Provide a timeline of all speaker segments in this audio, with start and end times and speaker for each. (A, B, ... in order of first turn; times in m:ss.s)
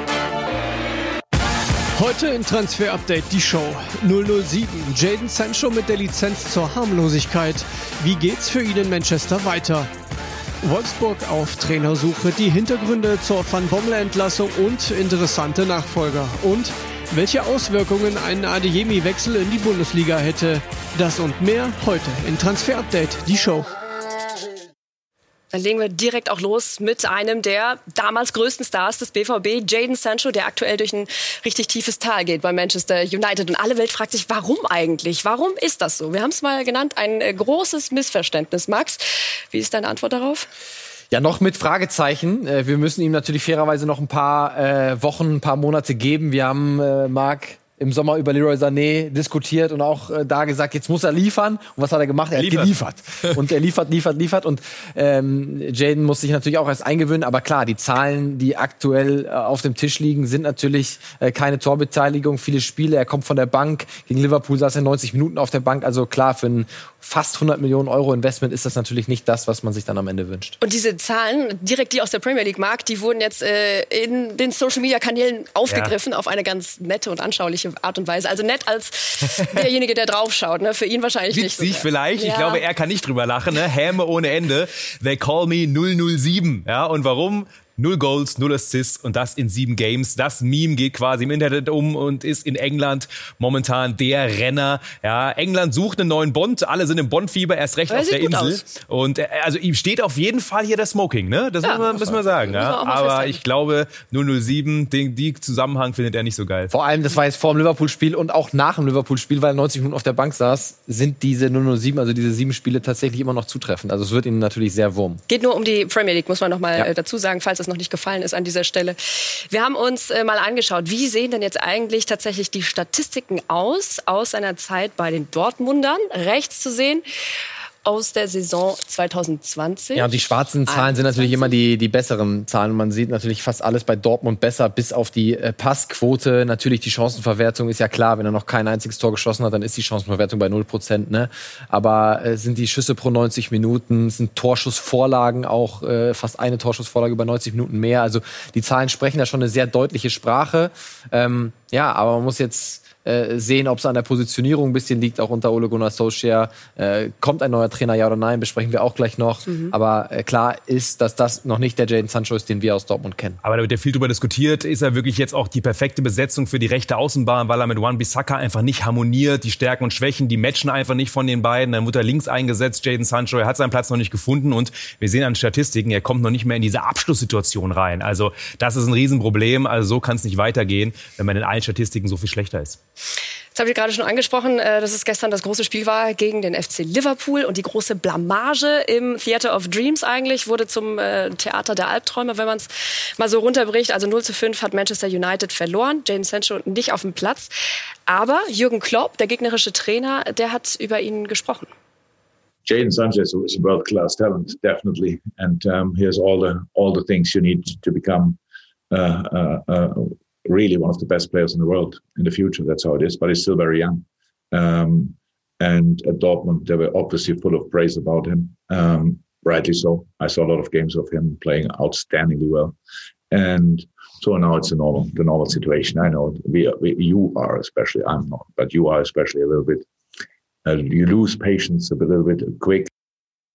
0:02.0-0:09.9 A
0:10.6-0:23.7 A
0:25.5-0:40.5 B
0:41.1-1:10.6 C
0:52.4-0:52.7 D
1:10.6-1:22.6 B
1:21.3-1:46.7 D
1:37.9-1:38.6 B
1:41.6-1:43.4 B
1:46.7-1:55.2 C
1:55.3-2:07.0 B
2:07.8-2:10.1 B
2:10.0-2:43.4 C
2:10.7-2:11.6 B
2:39.5-2:39.7 B
2:43.4-3:02.8 D
3:03.6-3:17.5 B
3:18.1-3:21.7 B
3:22.7-3:28.4 E
3:28.9-3:42.8 E
3:43.3-3:49.9 E
3:50.6-3:52.9 E